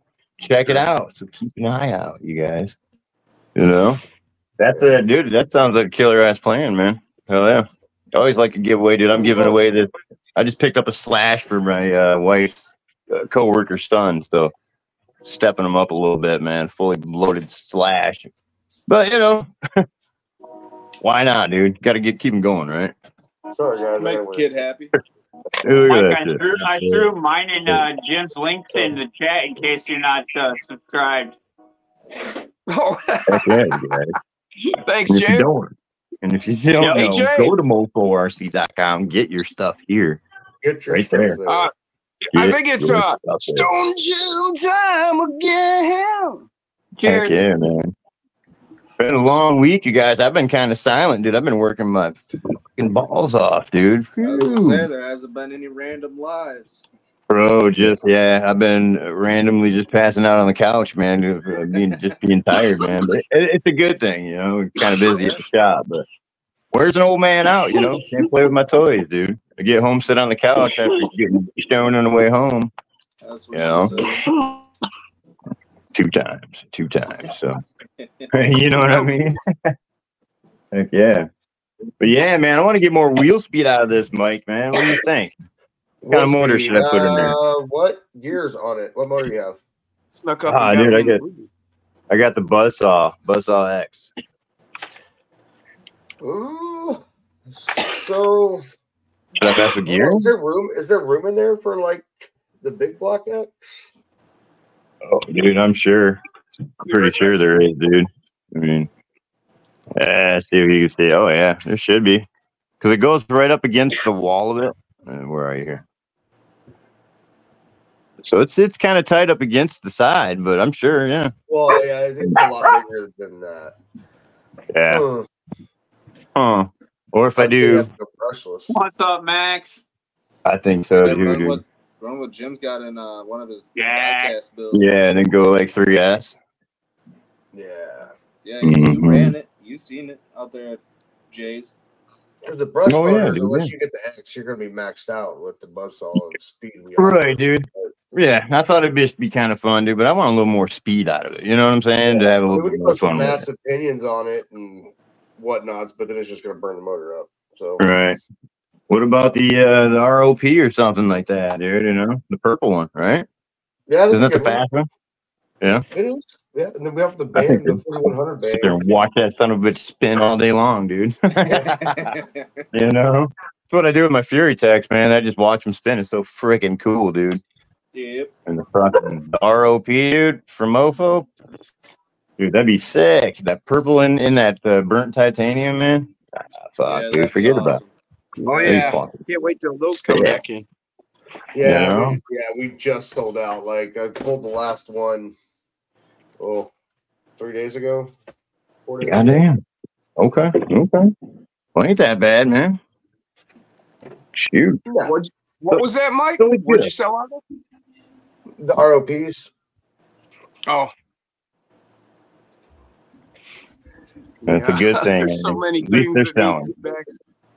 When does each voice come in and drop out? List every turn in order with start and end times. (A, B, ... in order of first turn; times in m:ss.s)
0:00.4-0:02.8 A
0:03.5-0:04.0 A
0:04.6-0:14.5 A
0:15.2-0:18.3 A
0:18.9-0:19.8 A
0:21.0-0:22.9 A
0:23.5-0:24.5 B
0:24.0-0:24.9 C
0:25.6-0:27.1 A
0:25.9-0:31.4 D
0:32.7-0:33.6 E
0:33.3-0:34.1 A
0:34.6-0:35.5 E
0:35.1-0:40.2 A
0:36.8-0:37.1 D
0:36.9-0:37.6 E
0:40.6-0:41.7 B
0:40.9-0:41.4 A
0:41.5-0:41.7 E
0:42.2-0:46.4 E
0:42.3-0:43.7 A
0:47.0-0:47.4 D
0:47.0-0:47.9 A
0:49.0-0:52.2 A
0:52.7-0:54.9 A
0:54.2-0:56.8 C
0:57.3-1:06.0 A
1:06.7-1:12.7 A
1:07.8-1:08.3 E
1:13.2-1:14.3 C
1:13.5-1:14.0 A
1:14.2-1:14.6 E
1:15.9-1:17.6 A
1:18.0-1:18.3 C
1:18.3-1:19.7 A
1:20.7-1:21.3 A
1:22.0-1:25.3 A
1:26.0-1:29.6 B
1:26.1-1:27.4 A
1:30.1-1:31.5 E
1:30.4-1:31.2 A
1:32.1-1:34.1 A
1:36.2-1:37.0 B
1:37.6-1:38.6 B
1:39.4-1:40.3 A
1:39.8-1:43.7 B
1:45.0-1:46.2 A
1:46.8-1:47.4 E
1:46.8-1:48.9 A
1:50.0-1:52.3 A
1:52.8-1:55.8 A
1:58.2-2:01.3 A
2:01.5-2:03.8 B
2:04.7-2:05.0 A
2:04.9-2:05.3 B
2:06.3-2:07.9 A
2:07.4-2:08.7 B
2:08.7-2:09.8 D
2:10.4-2:11.6 A
2:11.0-2:15.0 C
2:13.7-2:14.4 D
2:14.7-2:16.4 A
2:17.5-2:18.1 B
2:18.4-2:21.7 C
2:18.6-2:19.3 A
2:22.4-2:27.9 B
2:22.9-2:23.7 A
2:27.0-2:33.4 A
2:32.0-2:37.8 B
2:37.8-2:38.2 A
2:38.9-2:43.2 A
2:43.9-2:44.6 B
2:44.1-2:44.9 A
2:45.9-2:48.8 B
2:47.3-2:47.8 A
2:48.4-2:52.2 A
2:51.6-2:52.6 C
2:52.7-2:57.4 A
2:57.9-2:58.3 C
2:58.5-3:01.3 A
3:02.4-3:07.8 A
3:06.8-3:07.9 C
3:08.4-3:10.6 E
3:08.6-3:09.2 A
3:10.1-3:10.4 A
3:11.5-3:15.3 B
3:11.6-3:12.2 A
3:16.4-3:16.7 B
3:17.4-3:18.1 B
3:18.8-3:19.4 B
3:19.0-3:19.6 A
3:20.2-3:21.1 A
3:21.7-3:22.8 A
3:24.3-3:24.8 A
3:24.8-3:25.1 B
3:25.0-3:27.4 E
3:26.4-3:26.9 A
3:28.6-3:29.5 B
3:30.7-3:30.9 E
3:34.4-3:36.7 A
3:34.5-3:37.0 E